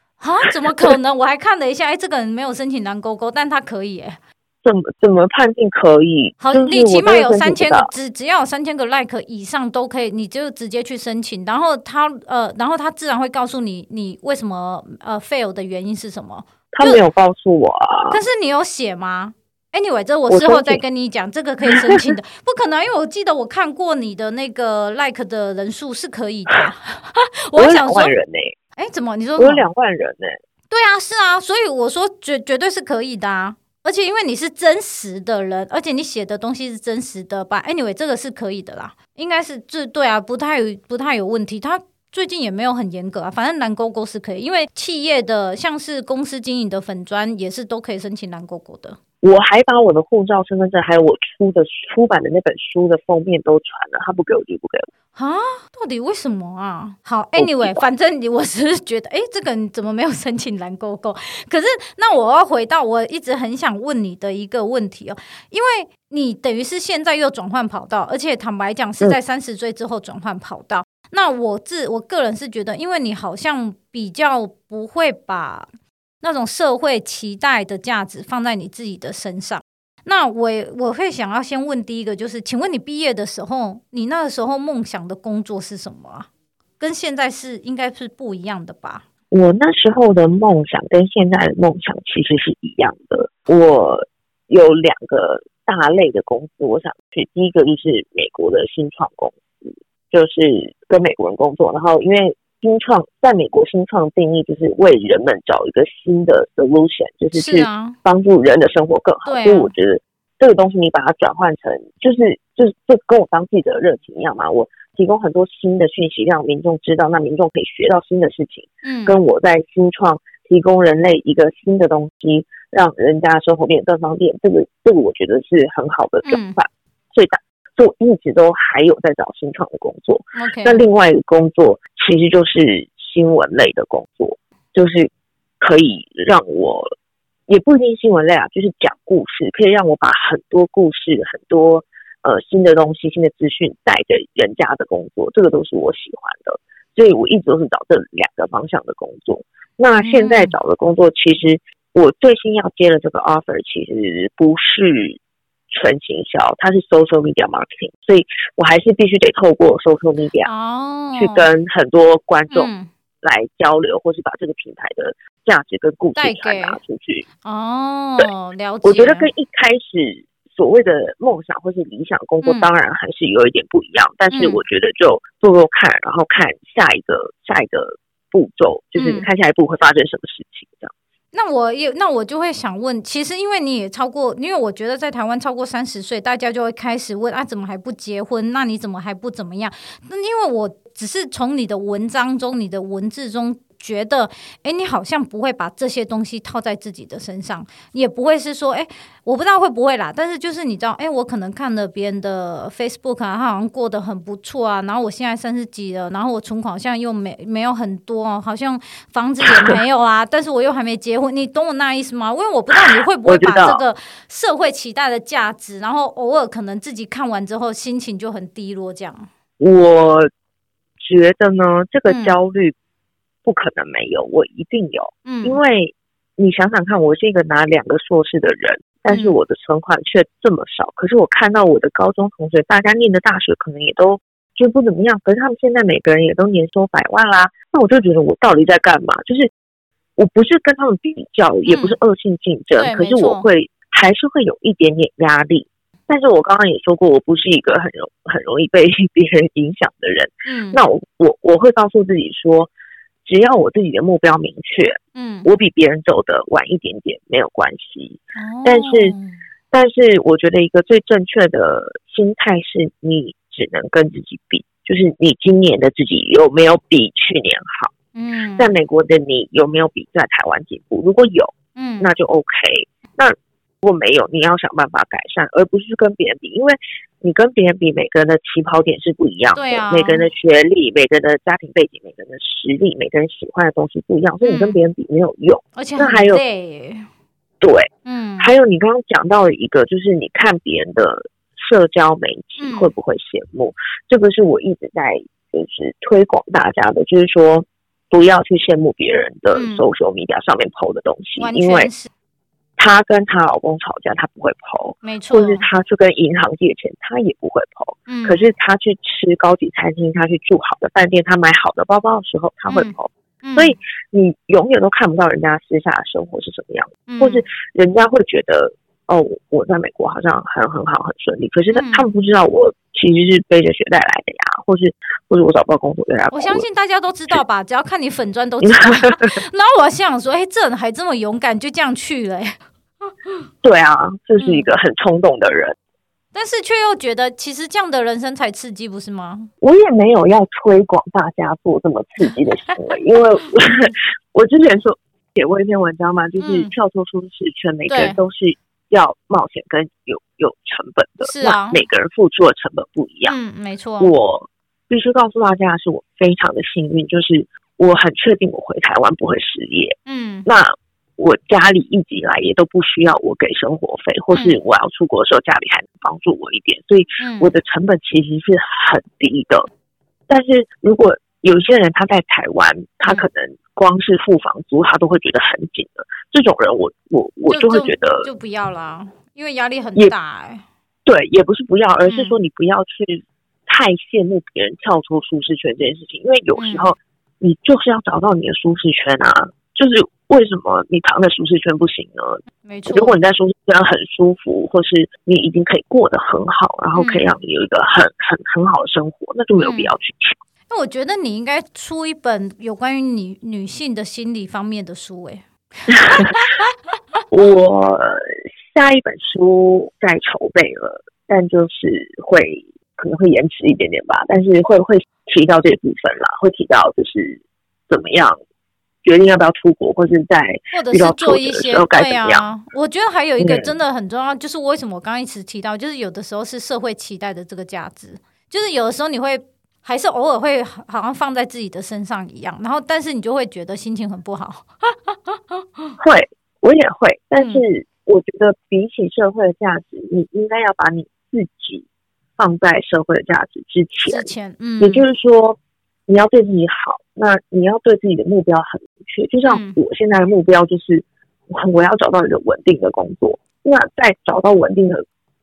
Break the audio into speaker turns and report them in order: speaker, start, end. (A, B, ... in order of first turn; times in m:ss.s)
0:00.2-0:04.2 A
0:04.6-0:07.9 B
0:06.4-0:17.0 A
0:16.7-0:18.2 B
0:18.1-0:28.1 A
0:20.3-0:20.8 B
0:21.7-0:22.0 B
0:27.5-0:28.5 B
0:28.8-0:29.6 A
0:29.4-0:30.4 B
0:30.7-0:49.0 A
0:49.2-0:54.9 B
0:55.1-1:15.7 A
0:57.4-0:57.8 B
1:16.2-1:26.3 A
1:26.8-1:29.0 A
1:29.3-2:16.9 B
1:47.3-1:48.0 A
1:49.2-1:49.7 A
1:58.8-1:59.2 A
2:06.2-2:06.6 A
2:10.4-2:10.8 A
2:17.5-2:35.2 B
2:30.0-2:30.5 A
2:35.7-2:40.5 B
2:40.4-2:41.5 A
2:41.2-2:42.7 B
2:42.5-2:42.9 A
2:43.2-2:47.2 B
2:46.2-2:46.8 A
2:47.4-2:49.3 A
2:48.8-3:00.9 B
2:54.3-2:54.6 A
2:59.0-2:59.2 A
3:01.3-3:39.3 A
3:29.4-3:29.8 B
3:32.8-3:33.8 B
3:39.6-3:40.3 B
3:41.0-3:42.8 B
3:42.1-3:42.4 A
3:43.4-3:59.5 B
3:45.2-3:45.6 A
3:49.1-3:49.4 A
4:00.2-4:12.7 B
4:01.6-4:02.0 A
4:02.7-4:03.4 A
4:10.4-4:10.8 A
4:13.2-4:19.1 B
4:15.1-4:15.5 A
4:18.4-4:19.4 A
4:19.7-4:27.9 B
4:28.1-4:28.7 A
4:28.6-4:46.4 B
4:31.8-4:32.1 A
4:39.5-4:40.3 A
4:44.4-4:44.8 A
4:45.8-4:47.1 A
4:47.6-5:01.9 B
4:48.0-4:48.5 A
4:52.6-4:52.9 A
4:59.5-4:59.8 A
5:01.4-5:02.1 A
5:02.8-5:26.6 B
5:05.0-5:05.6 A
5:08.1-5:08.4 A
5:12.7-5:13.8 A
5:17.1-5:17.4 A
5:21.7-5:22.1 A
5:26.3-5:32.6 A
5:28.6-5:29.3 B
5:33.6-5:35.8 B
5:34.4-5:34.7 A
5:36.3-5:39.5 A
5:39.6-5:53.4 B
5:42.6-5:43.2 A
5:46.4-5:46.7 A
5:47.9-5:48.2 A
5:51.2-5:51.8 A
5:53.2-5:54.1 A
5:54.0-6:09.7 B
6:00.1-6:00.5 A
6:07.2-6:07.5 A
6:10.3-6:18.3 B
6:17.5-6:20.6 A
6:21.0-6:40.4 B
6:22.1-6:22.4 A
6:26.6-6:26.9 A
6:32.6-6:33.2 A
6:36.9-6:37.3 A
6:39.6-6:39.9 A
6:40.7-6:46.7 A
6:45.9-6:46.3 B
6:47.3-6:58.4 B
6:59.0-7:02.5 B
7:00.7-7:15.9 A
7:03.4-7:03.7 B
7:16.0-7:21.8 B
7:17.4-7:17.6 A
7:22.4-7:35.0 B
7:24.0-7:25.1 A
7:29.4-7:29.8 A